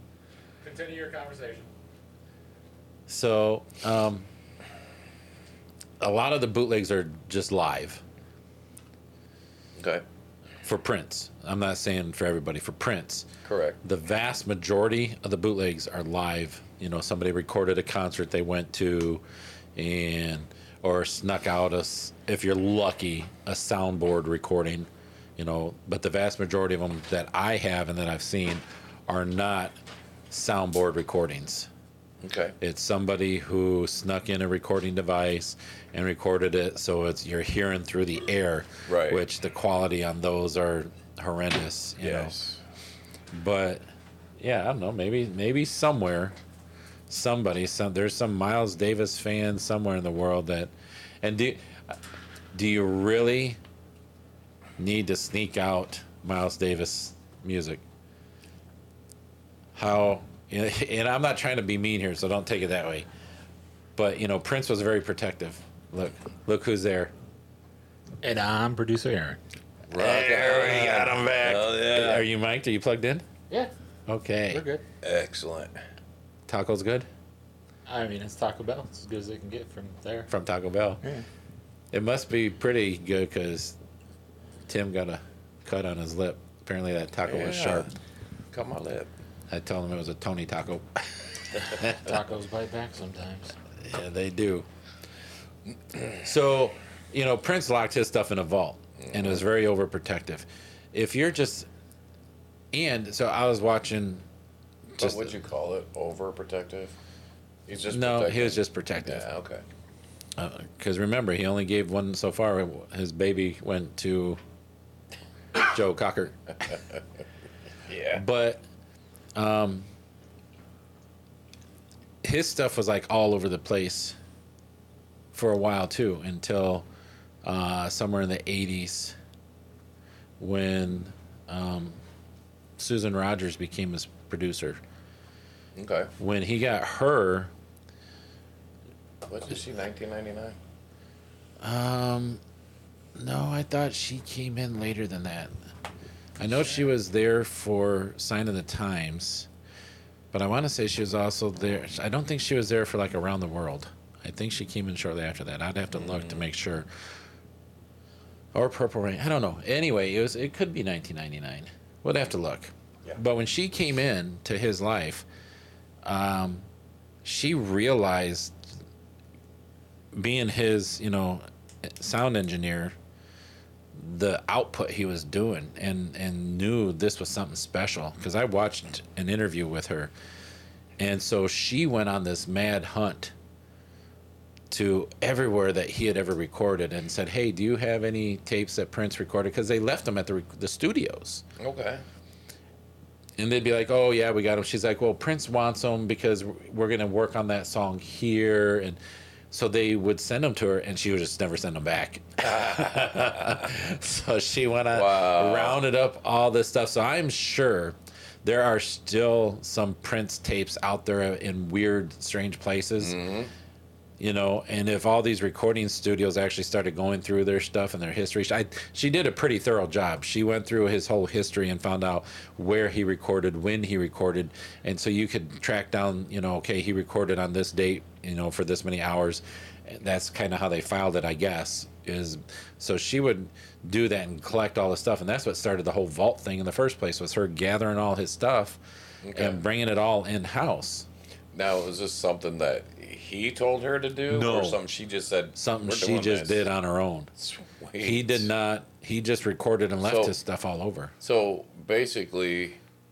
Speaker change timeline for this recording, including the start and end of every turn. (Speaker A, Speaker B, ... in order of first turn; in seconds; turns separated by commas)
Speaker A: 0.6-1.7, Speaker B: 3.1-4.3, Speaker B: 6.0-8.0, Speaker C: 9.8-10.0, Speaker B: 10.6-13.3, Speaker C: 13.4-13.8, Speaker B: 13.8-19.2, Speaker B: 19.8-29.8, Speaker B: 30.3-31.7, Speaker C: 32.2-32.5, Speaker B: 32.6-42.3, Speaker C: 38.9-39.2, Speaker C: 42.0-42.6, Speaker B: 43.3-43.8, Speaker B: 44.4-46.4, Speaker B: 47.1-52.0, Speaker B: 52.5-53.6, Speaker B: 54.8-57.8, Speaker B: 59.7-63.1, Speaker B: 63.9-67.1, Speaker A: 68.2-69.4, Speaker C: 69.9-72.3, Speaker B: 69.9-73.2, Speaker B: 74.1-74.6, Speaker A: 74.5-74.8, Speaker C: 75.0-75.7, Speaker B: 76.5-77.1, Speaker A: 77.8-80.3, Speaker B: 80.3-81.0, Speaker B: 81.9-83.8, Speaker B: 84.7-87.9, Speaker C: 87.2-87.9, Speaker C: 88.5-89.1, Speaker B: 89.5-92.1, Speaker A: 91.8-93.5, Speaker B: 93.8-94.7, Speaker C: 95.9-96.2, Speaker B: 96.2-101.7, Speaker C: 99.0-99.4, Speaker B: 102.7-104.2, Speaker B: 104.9-105.3, Speaker C: 105.0-106.9, Speaker C: 107.7-109.6, Speaker B: 107.9-109.2, Speaker B: 110.4-114.4, Speaker B: 115.5-116.6, Speaker C: 117.9-118.2, Speaker B: 118.1-118.6, Speaker B: 119.3-119.9, Speaker B: 122.2-124.2, Speaker B: 125.3-126.9, Speaker B: 127.4-129.2, Speaker B: 130.4-132.0, Speaker B: 132.8-134.8, Speaker C: 135.8-136.1, Speaker B: 136.2-137.5, Speaker C: 139.3-140.6, Speaker B: 141.6-142.4, Speaker B: 143.1-145.5, Speaker B: 146.4-149.5, Speaker C: 146.4-146.8, Speaker B: 150.3-156.9, Speaker C: 155.9-156.4, Speaker B: 158.5-165.2, Speaker B: 166.0-166.7, Speaker B: 167.2-168.6, Speaker B: 170.1-172.9, Speaker B: 173.9-180.1, Speaker B: 181.0-183.3, Speaker B: 184.7-191.4, Speaker C: 191.6-192.0, Speaker B: 193.4-199.0, Speaker B: 199.5-213.2, Speaker C: 202.5-203.2, Speaker C: 204.9-205.8, Speaker C: 213.0-213.5, Speaker B: 214.2-241.1, Speaker C: 239.2-239.6, Speaker C: 241.5-246.6, Speaker B: 244.3-244.8, Speaker B: 245.6-247.3, Speaker C: 247.4-248.5, Speaker B: 248.0-251.1, Speaker C: 250.0-250.4, Speaker C: 251.2-252.8